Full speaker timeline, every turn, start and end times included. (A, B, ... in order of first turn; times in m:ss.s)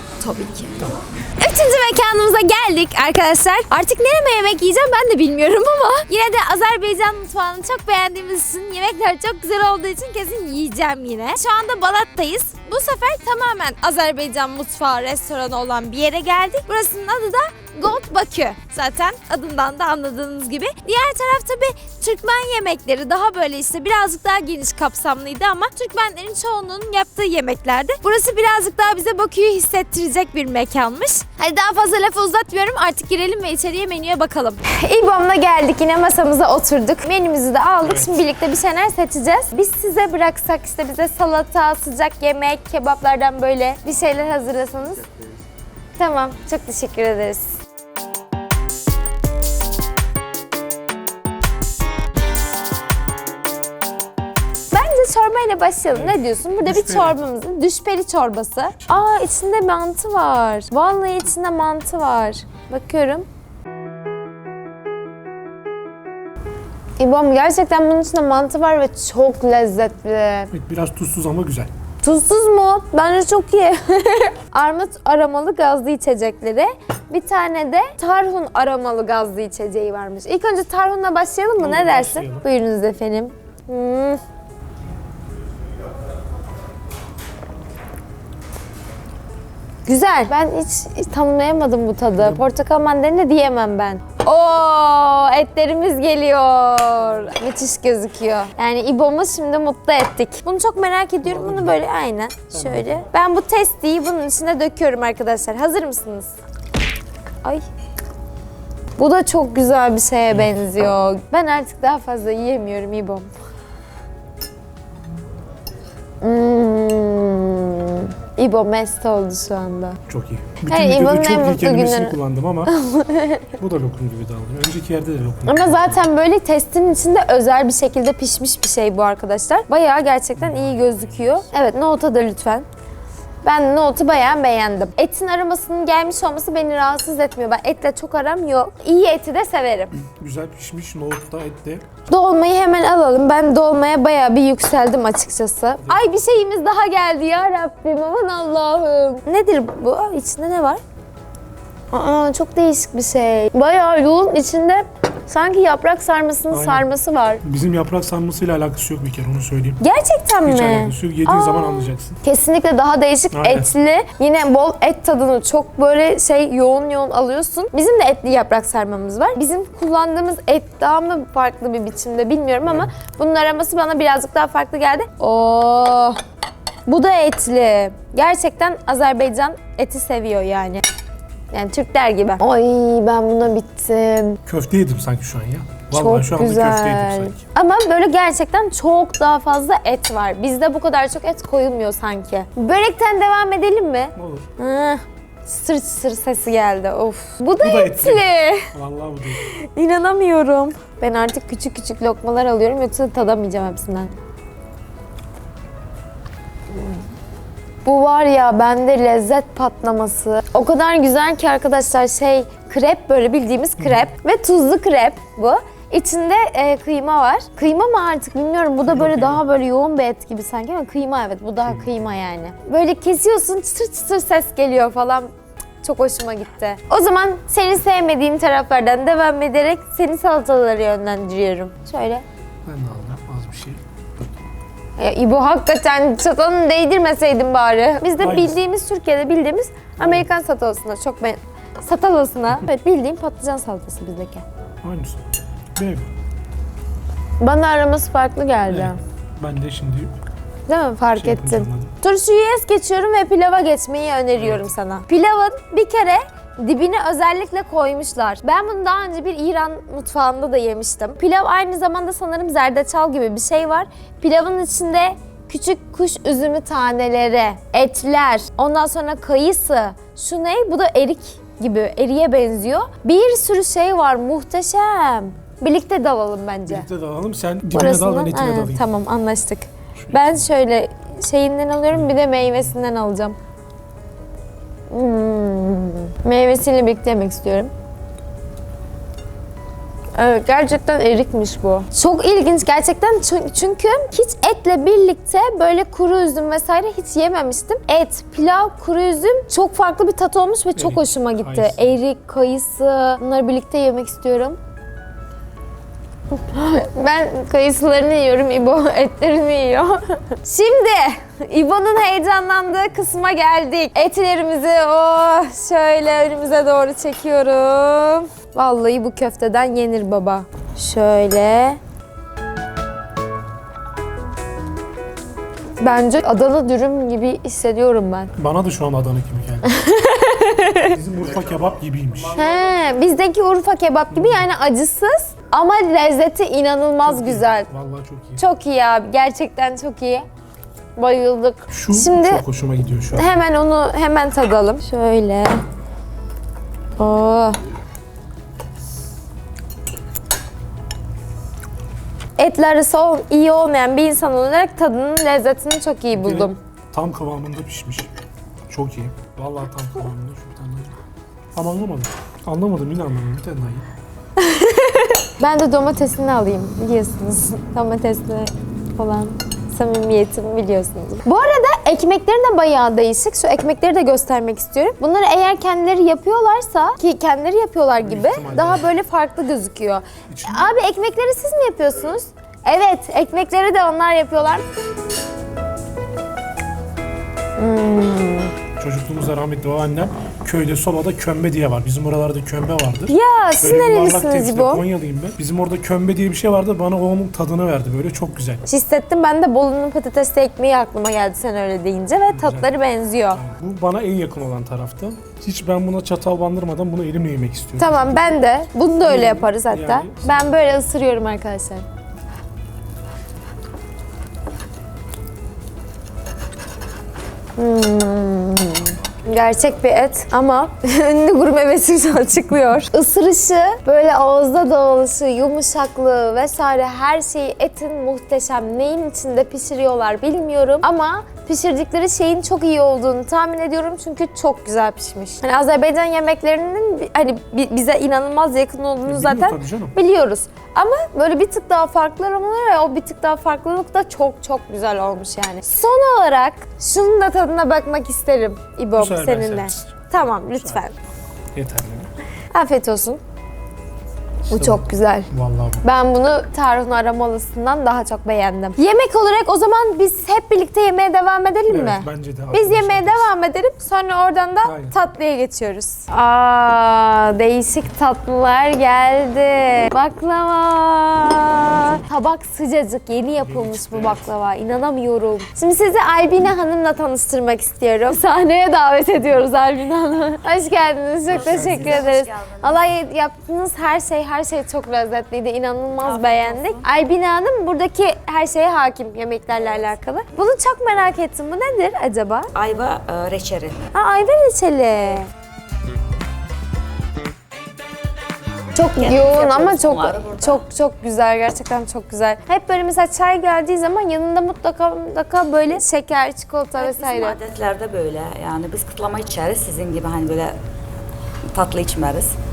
0:00.2-0:45.0 A
0:37.8-0:38.2 B
0:46.0-0:47.6 A
0:54.7-1:03.3 A
0:55.9-0:57.2 B
1:07.0-1:10.5 A
1:10.5-1:11.7 B
1:12.0-1:24.2 A
1:21.6-1:22.5 B
1:29.9-1:46.4 A
1:32.2-1:32.5 B
1:41.2-1:41.9 B
1:42.5-1:43.1 B
1:49.0-1:53.3 A
1:56.2-2:00.0 A
2:00.1-2:02.7 B
2:00.7-2:03.6 A
2:03.6-2:06.0 B
2:05.5-2:12.7 A
2:10.4-2:11.5 B
2:13.4-2:19.9 A
2:20.0-2:21.8 B
2:22.1-2:30.8 A
2:25.8-2:26.1 B
2:31.9-2:37.4 A
2:36.5-2:36.9 B
2:37.4-2:39.8 B
2:39.8-2:56.2 A
2:40.4-2:42.2 B
2:43.3-2:43.7 B
2:52.6-2:52.9 B
2:56.9-3:00.8 A
3:01.5-3:04.4 A
3:04.5-3:07.4 B
3:05.9-3:18.7 A
3:14.2-3:14.5 B
3:17.6-3:19.5 B
3:19.4-3:24.1 A
3:27.8-3:45.3 A
3:33.8-3:34.1 B
3:38.9-3:39.4 B
3:45.8-3:52.2 A
3:52.6-3:54.3 B
3:55.0-4:04.4 A
3:58.2-3:58.6 B
4:00.0-4:00.3 B
4:04.8-4:05.2 B
4:05.8-4:06.1 B
4:07.4-4:09.0 A
4:08.6-4:10.1 B
4:10.7-4:36.9 A
4:11.1-4:11.9 B
4:14.4-4:14.7 B
4:36.7-4:38.9 B
4:37.7-4:43.4 A
4:40.0-4:40.5 B
4:44.9-4:47.7 A
4:50.2-5:04.6 A
5:00.8-5:02.0 B
5:06.3-5:21.8 A
5:25.8-5:28.3 A
5:28.4-5:29.7 B
5:29.6-5:31.0 A
5:30.9-5:32.4 B
5:32.4-5:37.7 A
5:34.1-5:34.5 B
5:37.0-5:38.4 B
5:38.4-5:40.3 A
5:41.0-5:42.4 A
5:41.7-5:43.4 B
5:43.1-5:45.6 A
5:47.0-5:47.6 A
5:52.4-5:56.6 A
5:56.1-5:58.1 B
5:58.7-6:00.9 B
6:01.6-6:03.9 B
6:04.4-6:24.6 A
6:18.0-6:18.9 B
6:20.3-6:20.7 B
6:27.6-6:28.6 A
6:28.8-6:38.6 B
6:33.1-6:34.8 A
6:38.7-6:43.4 A
6:42.3-6:42.8 B
6:43.3-6:48.4 B
6:47.8-6:51.8 A
6:49.0-6:50.8 B
6:57.6-7:31.0 A
7:19.1-7:20.0 B
7:29.0-7:30.8 B
7:31.6-7:32.1 B
7:32.5-7:33.2 A
7:34.5-7:35.3 A
7:34.5-7:35.8 B
7:35.8-8:12.5 A
7:41.7-7:43.3 B
7:44.6-7:45.0 B
7:53.4-7:54.3 B
8:01.3-8:02.8 C
8:01.3-8:01.9 B
8:06.0-8:06.8 C
8:12.6-8:13.8 C
8:13.9-8:15.3 A
8:18.8-8:27.4 A
8:19.0-8:20.6 C
8:26.8-8:30.6 C
8:31.5-8:32.4 C